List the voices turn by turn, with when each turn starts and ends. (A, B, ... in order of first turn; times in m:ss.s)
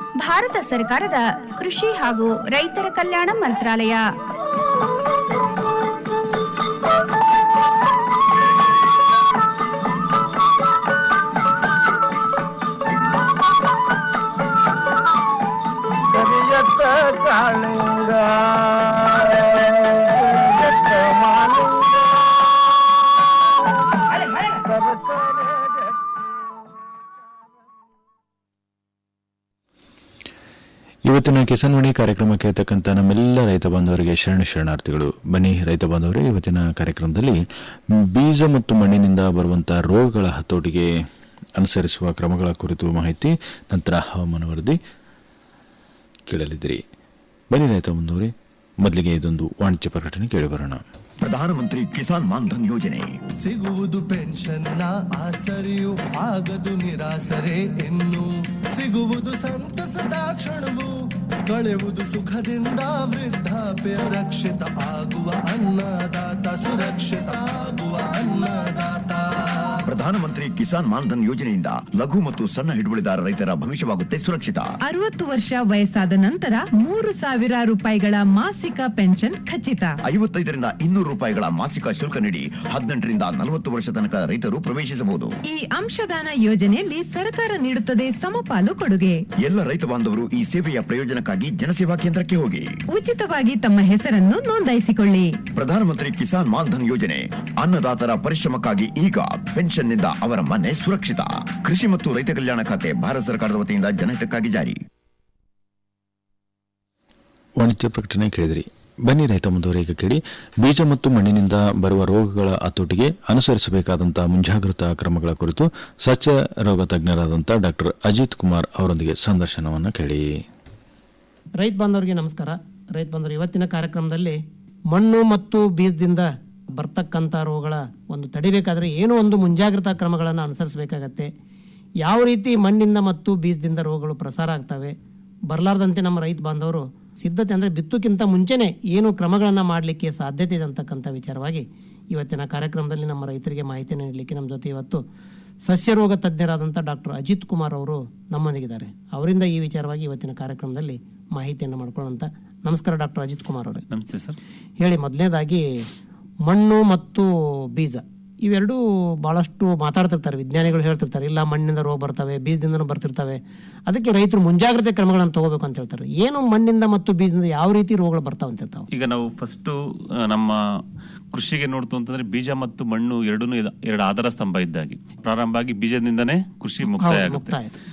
0:00.2-0:04.1 A
0:31.0-0:44.8 B
0:46.3-0:46.8 B
0:47.5-0:50.8 B
0:51.2-0:53.1 C
0:53.4-1:00.9 D
1:01.5-1:09.7 D
1:09.9-1:14.6 C
1:14.8-1:19.9 E
1:20.0-1:25.3 C
1:25.5-1:29.2 E
1:29.4-1:32.7 C
1:32.9-1:35.3 E
1:35.6-1:44.8 C
1:47.6-2:00.4 B
2:01.6-2:04.4 F
2:04.9-2:11.3 F
2:12.0-2:14.9 F
2:15.5-2:25.0 F
2:25.6-2:33.8 F
2:33.9-2:34.4 G
2:34.8-2:35.9 F
2:36.5-2:48.9 F
2:48.9-2:57.6 G
2:56.9-2:57.7 F